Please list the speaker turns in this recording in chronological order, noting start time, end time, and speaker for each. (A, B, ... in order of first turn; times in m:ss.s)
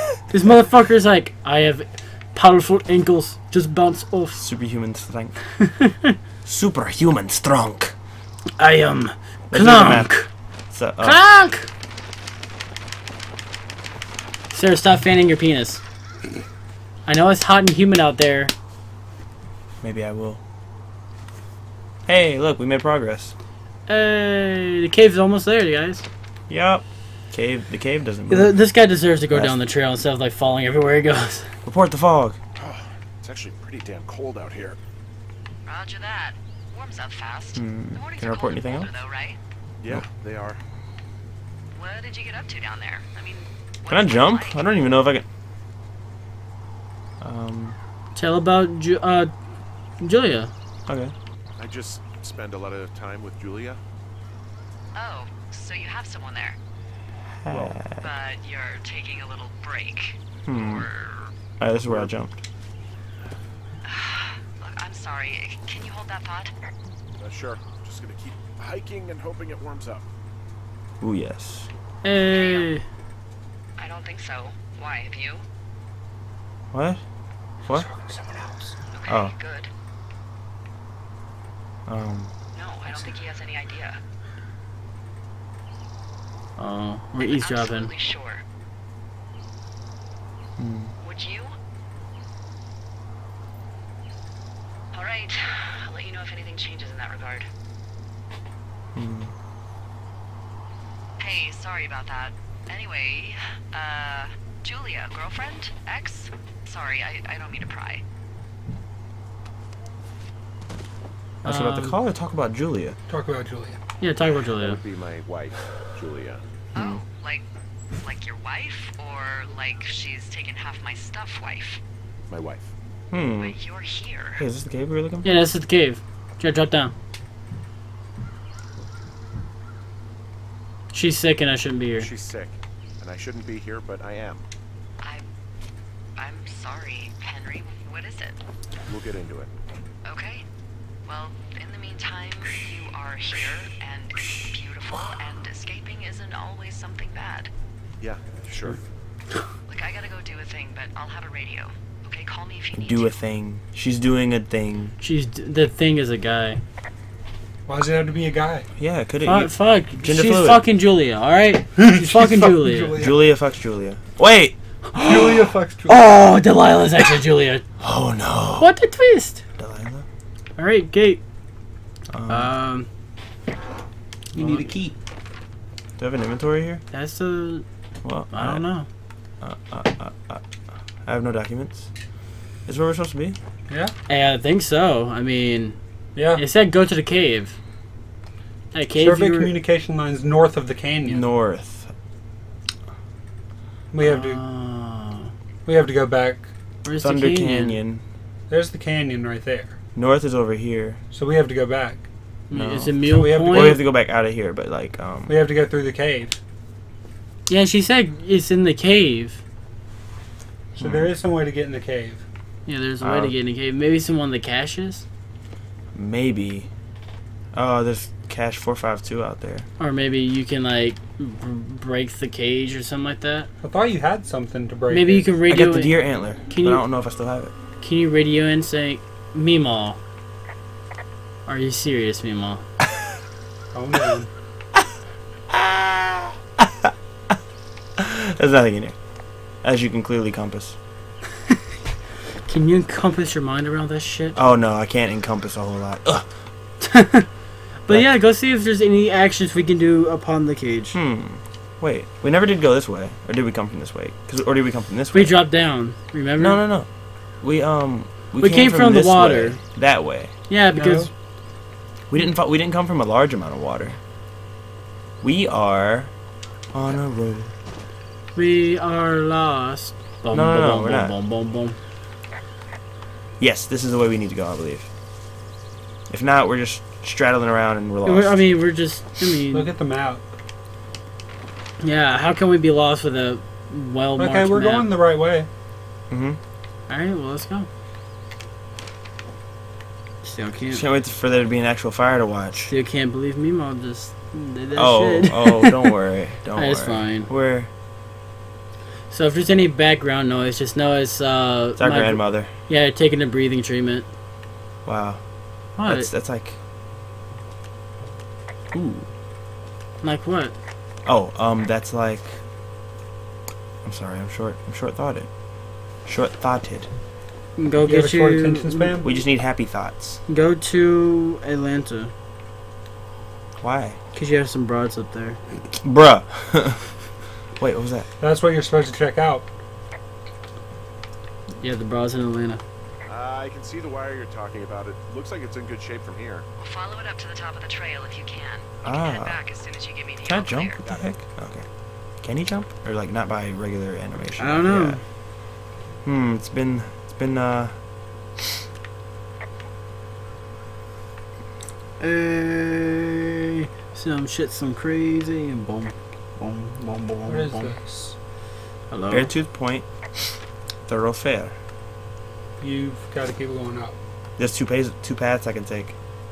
0:00.3-0:04.4 A
0:04.4-0:05.4 B
0:05.6-0:06.2 A
0:06.4-0:07.9 B
0:08.6-0:10.3 A
0:09.5-0:10.1 B
0:10.7-0:11.2 B
0:11.0-0:11.7 A
0:14.5-0:15.8 A
0:17.1-0:18.5 A
0:19.8-0:20.4 B
0:22.1-0:23.3 B
0:23.9-0:26.1 A
0:26.5-0:28.6 B
0:28.3-0:31.5 A
0:29.3-0:29.6 B
0:31.6-0:32.4 B
0:32.6-0:34.8 C
0:35.6-0:39.4 D
0:37.6-0:38.9 B
0:39.8-0:40.6 C
0:41.7-0:44.7 D
0:43.9-0:45.2 B
0:47.2-0:47.8 B
0:48.2-0:49.3 A
0:50.0-0:50.5 A
0:50.9-0:51.1 B
0:51.6-0:53.8 C
0:55.0-0:56.6 D
0:57.4-0:58.0 B
0:57.5-0:57.8 C
0:57.9-1:01.3 D
1:00.5-1:00.9 B
1:01.6-1:02.4 B
1:03.8-1:06.5 D
1:07.2-1:10.1 C
1:11.0-1:11.7 B
1:12.0-1:12.8 A
1:12.3-1:12.7 D
1:13.8-1:15.4 D
1:16.7-1:17.0 B
1:17.7-1:18.8 E
1:18.9-1:19.7 D
1:19.1-1:19.3 B
1:21.9-1:22.3 B
1:22.5-1:24.0 D
1:26.6-1:27.9 A
1:27.2-1:28.4 D
1:30.6-1:31.0 B
1:31.0-1:31.5 D
1:34.9-1:37.5 D
1:39.0-1:39.3 B
1:41.2-1:48.0 D
1:51.4-1:52.0 A
1:51.4-1:53.0 B
1:53.1-1:53.8 E
1:54.0-1:54.8 A
1:54.6-1:56.4 C
1:56.7-1:57.4 D
1:56.8-1:57.0 B
1:58.0-2:01.8 D
2:02.3-2:02.7 C
2:03.1-2:03.6 B
2:03.2-2:04.4 D
2:04.4-2:05.3 B
2:05.2-2:06.9 A
2:10.9-2:12.1 A
2:12.0-2:14.5 C
2:16.2-2:18.4 D
2:18.9-2:19.5 C
2:20.0-2:20.4 D
2:21.0-2:27.5 D
2:28.0-2:28.8 C
2:29.7-2:33.2 D
2:32.7-2:35.0 B
2:35.0-2:36.6 A
2:37.7-2:38.7 E
2:38.8-2:40.6 B
2:39.2-2:43.0 A
2:41.8-2:43.3 E
2:43.0-2:44.6 B
2:44.9-2:47.6 A
2:45.0-2:46.0 E
2:47.8-2:48.7 B
2:48.6-2:49.4 A
2:49.6-2:50.1 B
2:50.6-2:51.2 A
2:52.1-2:52.5 B
2:52.3-2:52.9 A
2:54.3-2:54.9 B
2:54.4-2:54.7 A
2:56.0-2:56.8 B
2:56.9-2:57.6 A
2:58.0-2:58.6 B
2:58.3-2:58.9 A
2:59.4-3:00.4 B
3:01.0-3:01.9 B
3:02.7-3:03.4 B
3:04.1-3:05.8 A
3:06.2-3:06.4 E
3:06.3-3:07.6 A
3:08.7-3:09.5 A
3:09.0-3:11.3 E
3:11.0-3:11.9 B
3:13.9-3:14.4 E
3:14.0-3:15.3 A
3:15.6-3:16.5 E
3:16.8-3:17.8 A
3:17.0-3:18.0 B
3:18.5-3:19.8 E
3:20.0-3:21.0 B
3:21.1-3:22.1 E
3:22.5-3:23.8 A
3:22.5-3:25.4 B
3:23.0-3:23.8 E
3:25.3-3:26.4 E
3:27.5-3:29.4 A
3:30.8-3:31.1 B
3:30.8-3:32.2 E
3:32.7-3:35.0 A
3:33.0-3:33.4 B
3:35.9-3:36.7 B
3:37.5-3:39.7 B
3:39.8-3:43.5 A
3:43.6-3:45.3 E
3:44.9-3:46.8 A
3:45.5-3:47.5 B
3:47.8-3:50.0 A
3:51.5-3:52.6 A
3:53.7-3:54.3 E
3:55.5-3:57.4 B
3:58.0-3:59.0 B
3:59.6-4:00.8 B
4:02.5-4:04.4 A
4:04.4-4:06.3 B
4:06.8-4:07.3 A
4:07.8-4:11.0 A
4:10.9-4:15.4 B
4:15.1-4:16.6 A
4:16.4-4:16.9 B
4:17.4-4:20.3 B
4:18.4-4:19.6 A
4:20.5-4:21.1 A
4:20.7-4:21.1 E
4:22.1-4:24.0 B
4:25.2-4:26.1 B
4:26.7-4:27.5 B
4:28.4-4:31.8 A
4:30.3-4:31.1 B
4:33.4-4:34.9 B
4:36.1-4:38.4 B
4:38.0-4:39.7 A
4:39.5-4:40.3 E
4:41.8-4:44.9 A
4:44.2-4:45.5 E
4:46.1-4:46.4 B
4:46.9-4:47.7 A
4:50.2-4:50.8 A
4:50.7-4:52.7 B
4:52.7-4:55.9 A
4:54.7-4:57.7 B
4:56.6-4:57.3 A
4:59.1-5:04.1 A
5:01.8-5:02.5 B
5:04.8-5:05.2 B
5:05.8-5:06.1 A
5:05.8-5:06.6 B
5:08.7-5:09.1 B
5:10.0-5:10.6 A
5:11.0-5:12.4 B
5:13.8-5:15.3 B
5:16.0-5:16.9 B
5:17.6-5:19.0 A
5:17.8-5:19.1 E
5:19.0-5:20.2 B
5:20.3-5:22.1 A
5:23.6-5:24.0 B
5:24.1-5:25.4 A
5:25.8-5:26.9 B
5:27.6-5:28.1 B
5:28.2-5:29.5 E
5:31.6-5:32.6 A
5:33.1-5:36.5 C
5:36.6-5:40.8 D
5:38.8-5:39.4 B
5:40.2-5:41.7 B
5:40.8-5:41.2 C
5:42.2-5:45.0 B
5:44.4-5:45.0 A
5:46.0-5:47.8 B
5:52.0-5:57.8 A
5:57.3-5:58.2 E
5:58.9-5:59.3 A
5:59.1-5:59.9 B
6:00.9-6:01.6 B
6:02.6-6:04.0 E
6:04.4-6:05.9 B